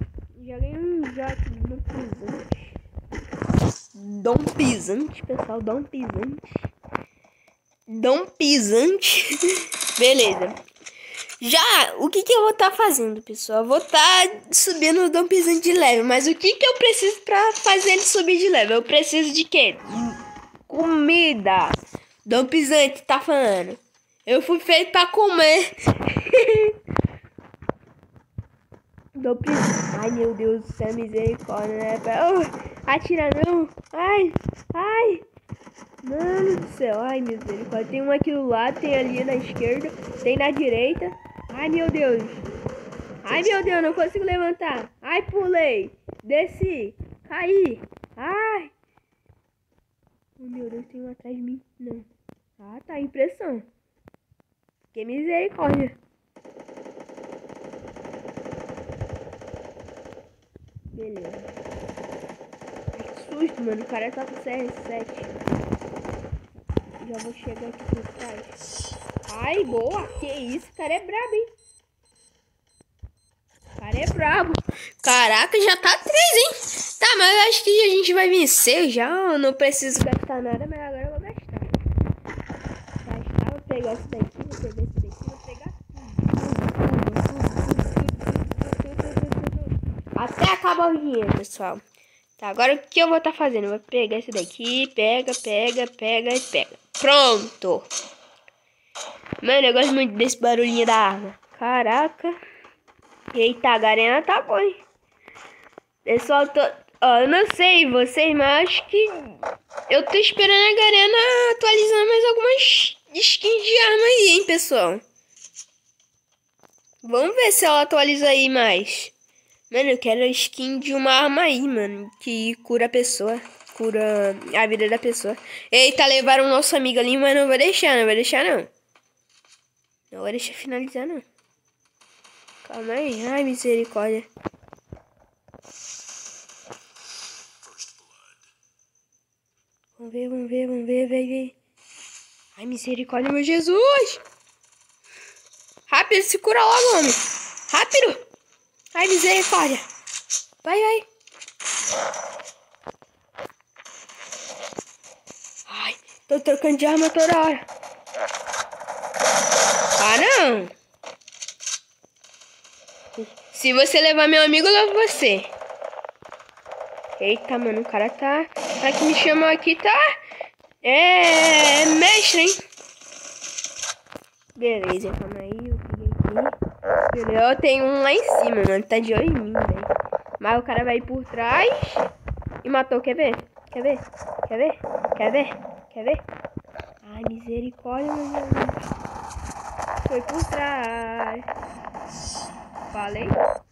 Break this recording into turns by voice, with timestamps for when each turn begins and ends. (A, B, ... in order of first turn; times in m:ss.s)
0:00.3-0:02.8 A
0:03.9-0:06.7 A
0:07.9-0:09.3 A
0:10.0-0:10.6 A
0:11.4-0:20.2 A
0:20.7-0:26.8 A
0:29.2-0:35.2 A
0:36.0-0:42.4 A
0:43.2-0:48.7 A
0:50.4-0:52.1 A
0:52.6-0:53.6 A
0:54.9-0:56.0 A
1:00.9-1:01.5 A
1:02.9-1:05.3 A
1:07.0-1:08.5 A
1:09.2-1:11.4 A
1:13.8-1:21.8 A
1:23.0-1:31.8 A
1:32.4-1:37.9 A
1:39.4-1:42.3 A
1:43.3-1:44.8 A
1:46.0-1:49.4 A
1:49.9-1:55.0 A
1:57.0-1:59.1 A
1:59.7-2:08.7 A
2:10.1-2:11.2 A
2:12.6-2:14.3 A
2:20.0-2:21.6 A
2:22.6-2:24.2 A
2:25.9-2:28.2 A
2:28.9-2:29.8 A
2:30.6-2:31.1 A
2:35.7-2:37.7 A
2:40.0-2:40.7 A
2:43.1-2:45.5 A
2:47.2-2:50.0 A
2:50.8-2:52.6 A
2:54.6-2:56.6 A
2:57.1-3:02.1 A
3:02.6-3:06.2 A
3:07.0-3:08.8 A
3:10.1-3:11.5 A
3:12.9-3:13.4 A